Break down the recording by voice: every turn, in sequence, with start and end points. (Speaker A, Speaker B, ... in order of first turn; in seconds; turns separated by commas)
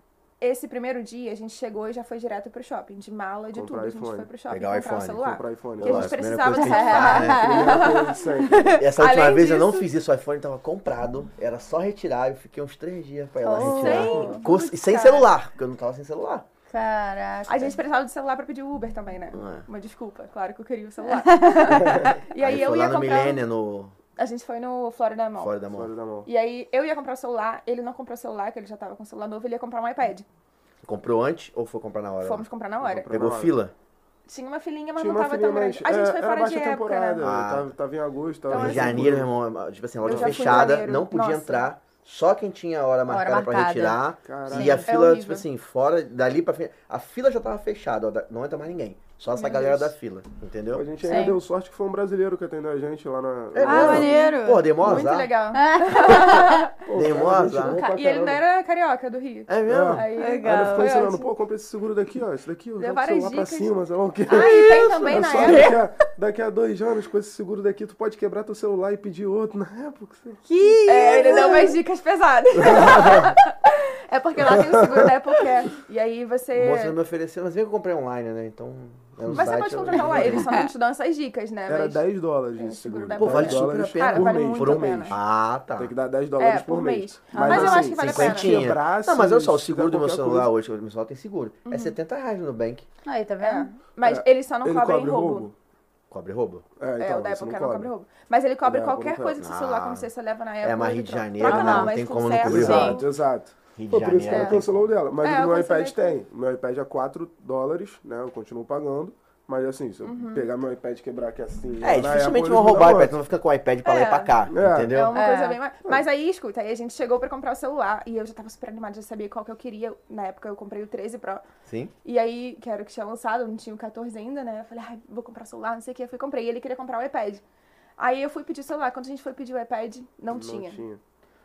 Speaker A: 0.4-8.2, Speaker B: 3.5-4.3, Speaker C: 4.5-7.7, Speaker B: 5.2-6.2, Speaker D: 6.5-8.8, Speaker B: 7.3-8.8, Speaker C: 8.8-16.5, Speaker A: 8.9-9.9, Speaker D: 13.4-14.4, Speaker A: 13.6-15.3, Speaker D: 16.7-17.8, Speaker A: 17.4-23.4, Speaker C: 19.3-19.6, Speaker B: 21.8-22.0, Speaker C: 22.3-23.9, Speaker A: 24.2-25.5, Speaker C: 25.4-25.9, Speaker B: 25.7-26.3, Speaker A: 26.2-30.2, Speaker C: 30.8-32.5, Speaker A: 32.2-33.1, Speaker B: 32.8-33.5, Speaker C: 33.1-33.7, Speaker A: 34.3-37.2, Speaker B: 35.0-39.3, Speaker C: 37.2-37.7, Speaker C: 38.5-50.9, Speaker A: 38.5-39.1, Speaker B: 40.0-40.8, Speaker A: 40.0-41.7, Speaker D: 43.1-44.9, Speaker B: 44.2-44.8, Speaker A: 44.9-45.5, Speaker A: 49.3-49.9, Speaker B: 50.7-54.1, Speaker D: 51.0-51.4, Speaker C: 53.5-55.3, Speaker D: 53.6-54.7, Speaker A: 53.7-56.8, Speaker D: 55.5-56.7, Speaker B: 56.9-58.4, Speaker C: 56.9-57.9, Speaker A: 57.5-61.3, Speaker C: 59.5-60.1, Speaker B: 59.6-70.4, Speaker D: 60.1-60.9, Speaker A: 62.8-63.7, Speaker A: 64.2-65.8, Speaker D: 70.5-71.8, Speaker A: 70.8-77.0, Speaker B: 72.6-73.2, Speaker B: 74.5-75.1, Speaker C: 76.5-80.5, Speaker B: 79.2-80.4, Speaker A: 79.3-85.2, Speaker B: 81.7-85.2, Speaker C: 83.2-85.9, Speaker B: 85.8-90.5, Speaker A: 86.4-88.6, Speaker D: 87.3-87.8, Speaker C: 87.5-92.8, Speaker A: 91.7-92.0, Speaker D: 93.0-93.7, Speaker A: 93.4-95.5, Speaker B: 94.0-95.5, Speaker C: 96.1-96.6, Speaker B: 96.8-97.9, Speaker A: 97.0-103.1, Speaker B: 98.6-99.4, Speaker C: 99.4-100.1, Speaker C: 100.6-103.0, Speaker D: 101.4-102.0, Speaker B: 102.5-113.2, Speaker D: 102.5-103.0, Speaker C: 103.8-104.9, Speaker A: 104.3-104.5, Speaker A: 105.2-106.2, Speaker A: 110.0-110.5, Speaker C: 111.8-115.2, Speaker A: 113.8-114.4, Speaker B: 114.5-114.9, Speaker A: 114.9-121.4, Speaker D: 115.1-115.6, Speaker C: 121.7-121.9, Speaker A: 122.0-127.4, Speaker A: 128.0-130.8, Speaker B: 130.3-131.0